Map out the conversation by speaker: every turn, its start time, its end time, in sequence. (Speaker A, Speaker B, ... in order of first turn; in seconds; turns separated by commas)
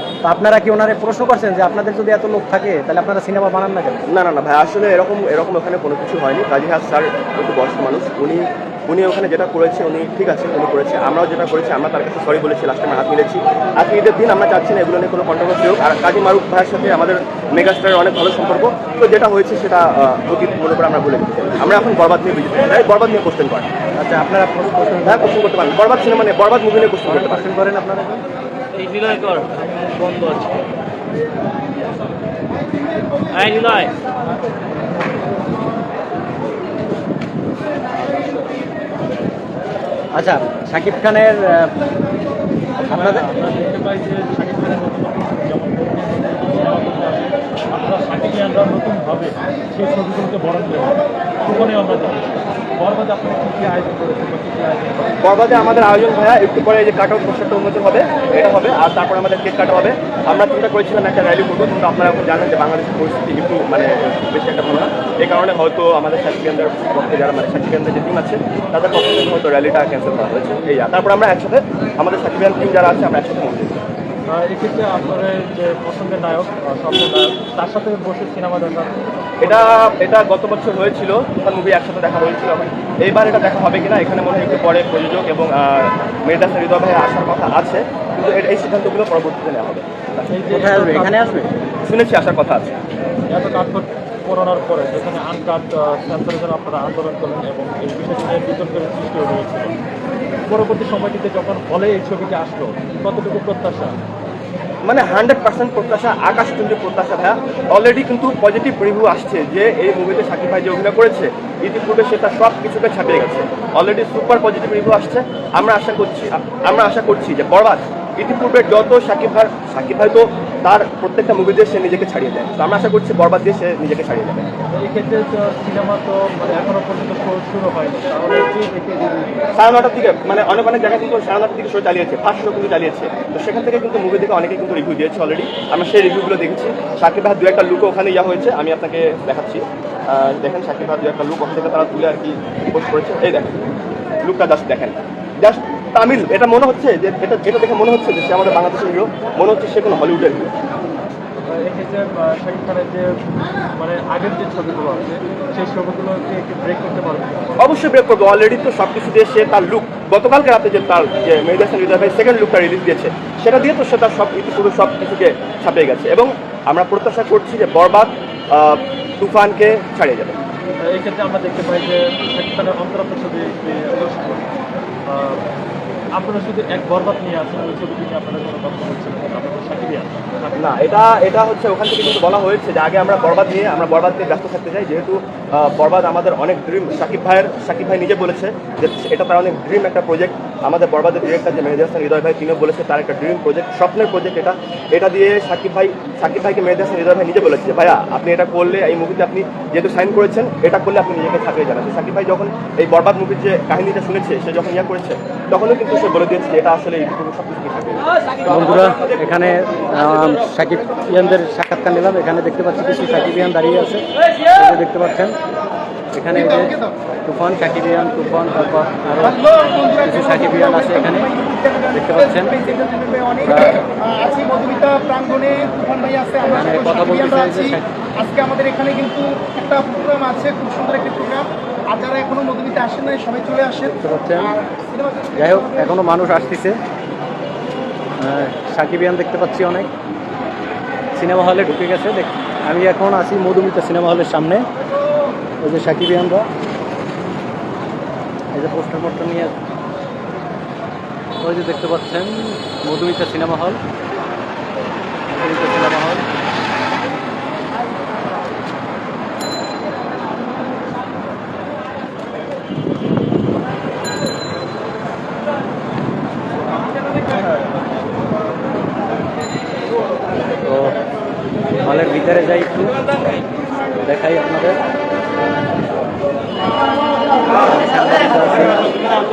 Speaker A: 0.2-4.0, Speaker B: 4.1-23.7, Speaker A: 24.0-25.3, Speaker B: 25.1-27.5, Speaker A: 27.1-28.2, Speaker C: 28.8-30.5, Speaker C: 33.3-33.9, Speaker A: 40.1-41.8, Speaker D: 42.9-55.2, Speaker A: 42.9-43.3, Speaker B: 55.2-73.8, Speaker D: 74.3-79.5, Speaker B: 79.4-90.4, Speaker D: 90.3-91.3, Speaker A: 90.5-91.5, Speaker B: 91.9-92.8, Speaker D: 93.3-99.8, Speaker D: 100.5-104.0, Speaker B: 104.8-124.7, Speaker D: 124.8-129.3, Speaker B: 129.5-143.6, Speaker B: 144.2-150.5, Speaker D: 151.5-157.6, Speaker B: 157.6-170.4, Speaker D: 170.8-174.5, Speaker D: 175.1-175.4, Speaker D: 176.2-180.6, Speaker B: 180.6-208.8, Speaker A: 208.4-215.4, Speaker A: 216.2-216.7, Speaker E: 216.3-217.0, Speaker A: 217.2-219.4, Speaker E: 219.2-235.9, Speaker A: 220.0-221.3, Speaker A: 221.9-222.5, Speaker A: 223.4-223.8, Speaker A: 226.4-227.9, Speaker A: 234.0-234.5, Speaker A: 235.4-236.8, Speaker A: 238.2-239.9, Speaker A: 241.2-244.7, Speaker A: 245.6-246.5, Speaker A: 248.5-249.5, Speaker A: 251.4-253.8, Speaker A: 255.3-256.3, Speaker A: 270.6-270.9, Speaker A: 271.8-273.0, Speaker A: 274.0-274.8, Speaker A: 277.6-278.9